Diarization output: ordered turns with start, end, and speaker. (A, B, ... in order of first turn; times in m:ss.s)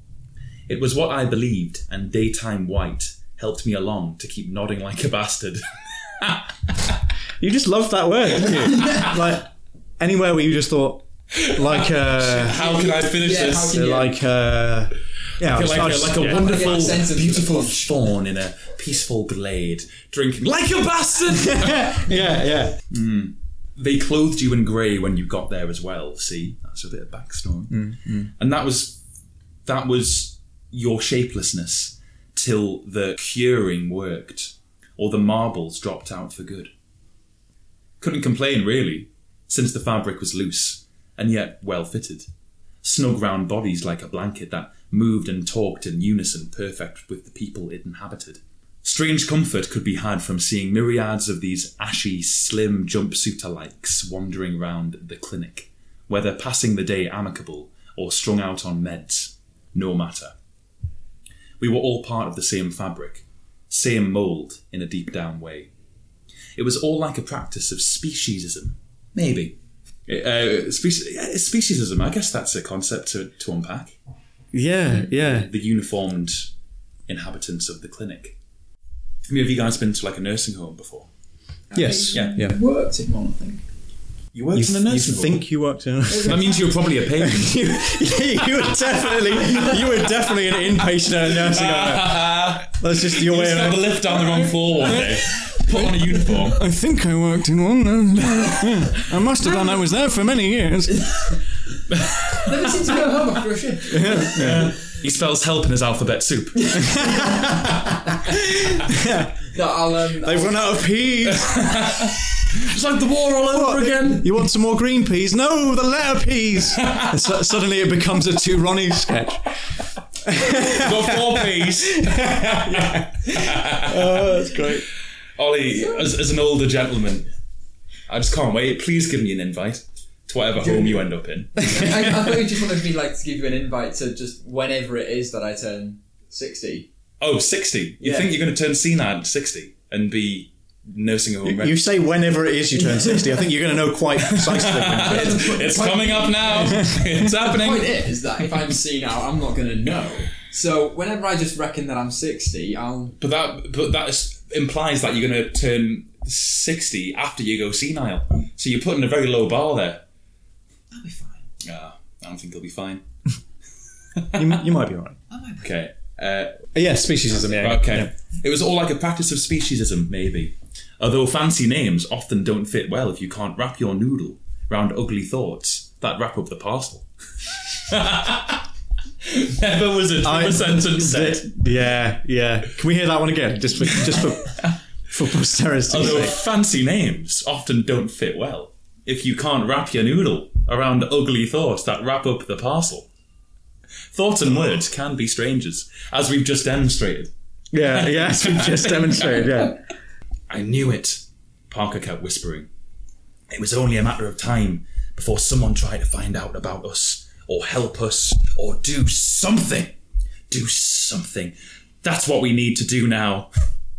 0:00.7-0:07.0 A
0:07.4-0:12.6 B
0:11.4-0:13.8 A
0:12.6-0:14.1 C
0:13.7-0:16.8 B
0:15.4-0:22.4 A
0:16.2-0:17.8 C
0:21.3-0:22.8 B
0:22.9-0:29.0 A
0:27.7-0:28.3 B
0:29.6-0:36.7 A
0:38.0-0:42.3 A
0:42.8-1:00.4 A
1:01.6-1:05.7 A
1:06.6-1:14.0 A
1:14.5-1:15.5 B
1:15.0-1:16.5 A
1:17.1-1:18.4 A
1:19.3-1:21.1 A
1:21.7-1:23.6 C
1:21.8-1:22.6 B
1:22.1-1:22.4 A
1:24.3-1:25.5 A
1:24.5-1:34.2 B
1:26.1-1:26.5 C
1:26.2-1:28.1 A
1:29.4-1:36.6 A
1:34.9-1:35.9 B
1:36.5-1:41.3 B
1:41.9-1:42.7 A
1:42.4-1:44.7 C
1:43.9-1:44.7 B
1:44.2-1:47.4 A
1:46.6-1:47.5 C
1:46.8-1:49.5 B
1:49.5-1:50.8 C
1:50.2-1:51.8 B
1:51.3-1:54.3 A
1:53.5-2:04.9 B
1:56.8-1:57.3 A
2:00.5-2:04.7 A
2:05.4-2:07.3 A
2:08.1-2:12.4 A
2:10.7-2:11.0 C
2:11.6-2:16.9 C
2:17.2-2:21.8 A
2:18.0-2:18.3 C
2:21.4-2:25.6 B
2:24.3-2:28.1 A
2:24.9-2:33.2 C
2:26.6-2:27.2 B
2:33.2-2:40.0 A
2:40.9-2:41.5 C
2:41.6-2:43.0 A
2:44.1-2:44.6 A
2:44.3-2:45.2 B
2:45.3-2:45.8 C
2:45.6-2:46.7 A
2:46.7-2:48.1 B
2:47.3-2:58.7 A
2:59.2-3:01.6 A
3:00.2-3:06.4 B
3:03.9-3:04.8 A
3:05.9-3:13.1 A
3:14.1-3:19.7 A
3:17.7-3:19.8 B
3:20.5-3:22.7 A
3:23.5-3:30.0 A
3:30.5-3:33.5 A